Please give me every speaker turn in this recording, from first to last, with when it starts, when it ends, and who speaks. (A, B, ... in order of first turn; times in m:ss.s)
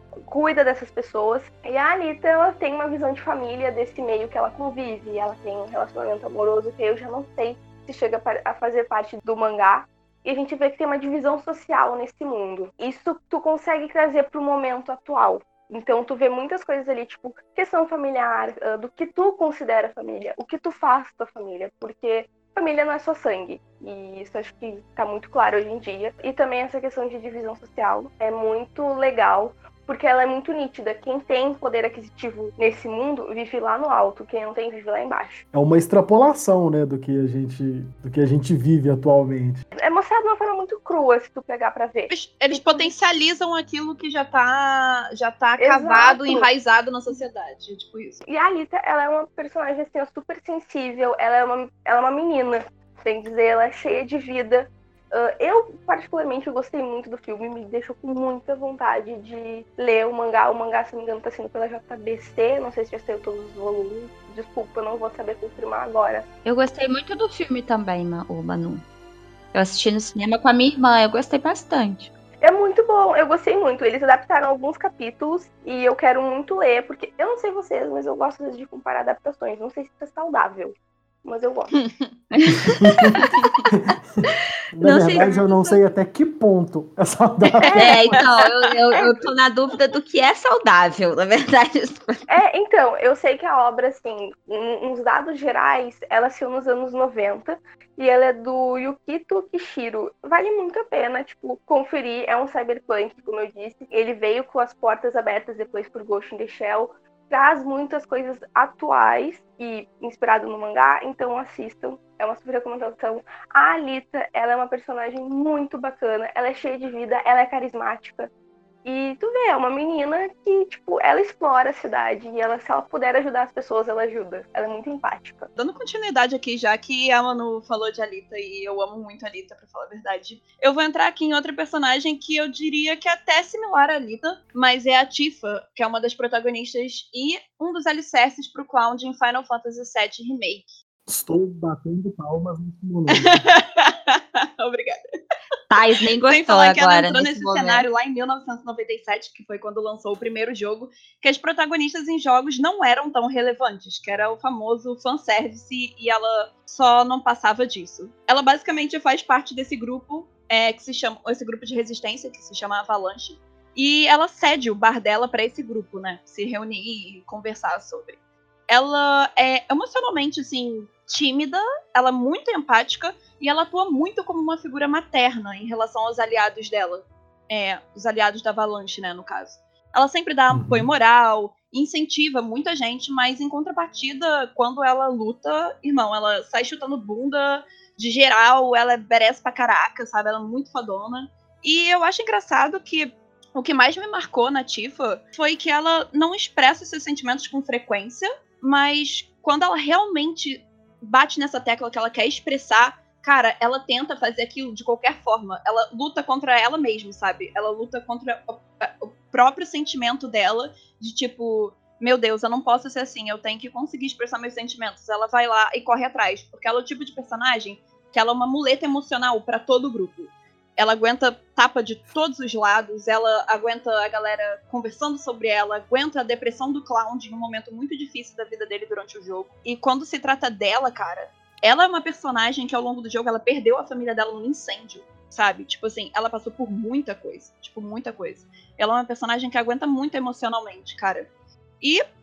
0:00.3-0:35.4 A
0:35.5-0:39.6 B
0:39.8-0:42.9 A
0:42.1-0:48.2 C
0:45.6-0:46.5 A
0:48.3-1:06.3 A
1:06.4-1:08.8 D
1:09.5-1:12.1 D
1:12.4-1:21.7 A
1:21.8-1:22.1 C
1:22.3-1:23.3 D
1:22.6-1:24.0 B
1:24.8-1:27.8 B
1:24.8-1:25.5 D
1:27.6-1:28.6 C
1:27.6-1:28.2 A
1:27.7-1:32.3 D
1:32.3-1:58.3 A
1:58.8-2:05.5 A
2:05.6-2:20.8 C
2:21.1-2:23.4 B
2:23.2-2:25.0 C
2:25.7-2:27.9 D
2:26.3-4:01.3 C
3:00.5-3:00.9 B